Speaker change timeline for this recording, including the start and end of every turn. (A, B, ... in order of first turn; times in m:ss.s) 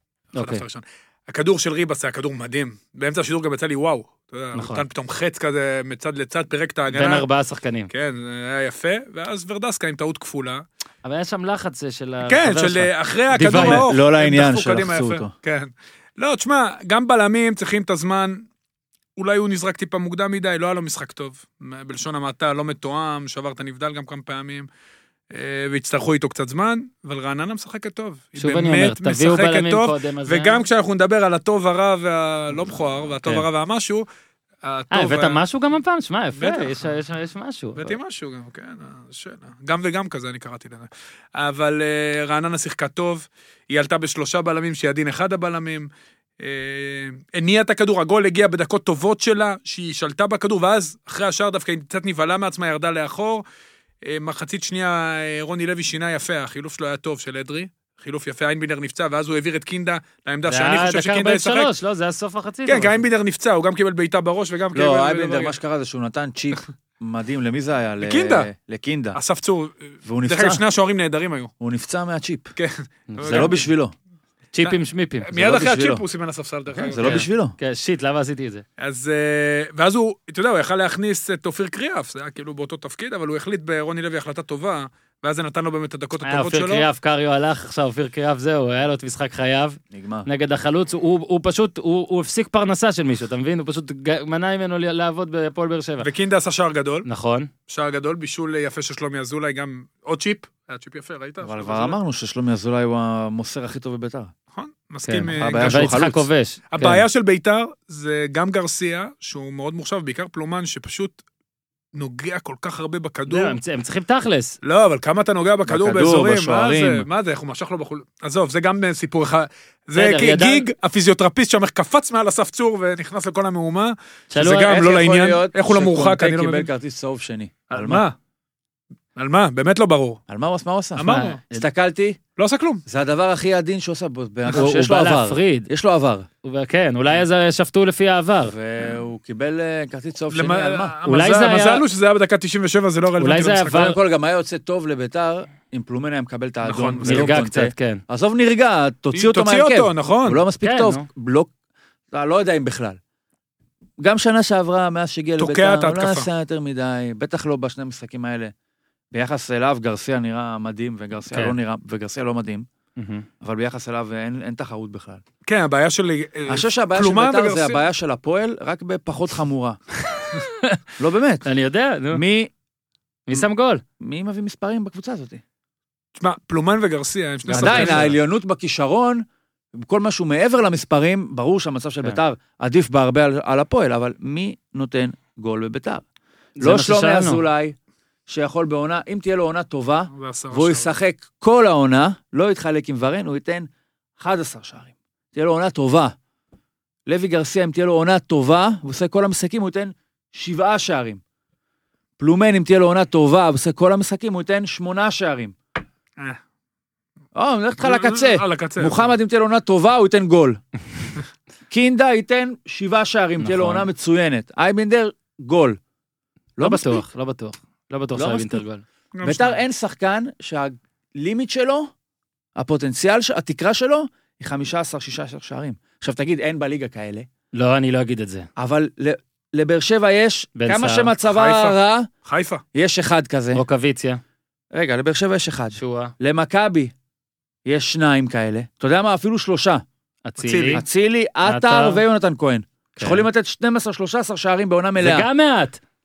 0:00.4-0:00.6 A
0:00.4-0:07.3 B
0:04.6-0:04.8 A
0:06.9-0:07.9 A
0:07.9-0:10.6 B
0:11.0-0:13.8 A
0:12.3-0:18.4 B
0:13.5-0:15.3 C
0:19.2-0:24.7 B
0:25.3-0:34.0 B
0:28.4-0:30.6 A
0:34.6-0:35.4 B
0:34.9-0:38.0 A
0:36.4-0:36.9 B
0:37.8-0:45.9 B
0:46.4-0:53.4 B
0:54.0-1:01.7 B
1:00.5-1:03.0 A
1:02.7-1:05.6 B
1:04.7-1:09.2 C
1:08.0-1:08.5 B
1:09.2-1:11.5 B
1:10.0-1:10.6 C
1:11.6-1:12.5 C
1:12.6-1:13.6 B
1:13.1-1:13.6 A
1:13.2-1:13.9 C
1:14.5-1:15.4 A
1:14.6-1:17.2 B
1:15.4-1:16.0 C
1:16.7-1:17.5 C
1:17.0-1:18.6 A
1:18.8-1:26.8 B
1:26.2-1:36.1 A
1:29.9-1:30.3 C
1:36.0-1:37.1 B
1:37.0-1:37.5 A
1:37.7-1:42.0 B
1:41.4-1:44.3 C
1:44.5-1:46.0 B
1:45.0-1:47.0 A
1:45.3-1:46.3 C
1:46.7-1:51.2 B
1:51.9-1:53.6 B
1:53.3-1:54.6 A
1:54.6-2:06.7 B
1:55.7-1:57.1 C
2:00.0-2:00.6 A
2:04.3-2:04.8 A
2:04.7-2:08.0 C
2:07.7-2:08.2 B
2:09.2-2:10.2 B
2:10.3-2:12.2 C
2:11.0-2:11.4 B
2:11.1-2:11.6 A
2:12.4-2:12.8 B
2:12.9-2:16.3 C
2:14.5-2:15.7 A
2:16.4-2:18.5 A
2:18.4-2:20.9 C
2:20.3-2:23.9 B
2:21.1-2:21.8 A
2:23.2-2:24.0 A
2:23.7-2:31.5 C
2:26.6-2:27.4 B
2:27.0-2:28.0 A
2:29.1-2:30.4 B
2:30.6-2:31.1 A
2:32.1-2:33.0 C
2:34.0-2:38.5 C
2:35.4-2:36.3 B
2:39.1-2:42.7 C
2:43.0-2:43.3 A
2:43.4-2:45.2 C
2:45.5-2:47.8 B
2:46.5-2:49.8 C
2:50.3-2:50.8 A
2:51.0-2:51.5 C
2:51.4-2:52.2 A
2:52.1-2:52.5 C
2:53.3-2:53.8 A
2:54.0-2:55.4 C
2:56.2-2:58.1 B
2:57.5-2:58.2 A
2:57.5-3:06.0 C
3:06.6-3:07.4 A
3:06.6-3:07.8 C
3:08.3-3:13.7 C
3:10.1-3:10.9 B
3:14.2-3:16.1 C
3:17.1-3:21.2 C
3:22.2-3:25.6 C
3:27.4-3:30.6 C
3:27.8-3:29.1 B
3:31.7-3:35.8 C
3:33.4-3:33.9 A
3:36.6-3:37.1 C
3:36.6-3:38.8 A
3:38.2-3:38.6 C
3:39.2-3:39.6 B
3:39.2-3:41.9 C
3:42.6-3:47.3 C
3:47.5-3:48.5 A
3:48.6-3:52.1 C
3:50.6-3:51.1 A
3:51.3-3:52.6 B
3:52.7-3:53.6 C
3:53.5-3:54.2 A
3:54.7-3:56.9 C
3:55.8-3:56.1 A
3:57.7-3:59.8 C
4:00.2-4:00.8 A
4:00.4-4:00.8 B
4:00.7-4:05.3 C
4:01.4-4:02.0 A
4:03.0-4:03.3 A
4:05.0-4:05.8 A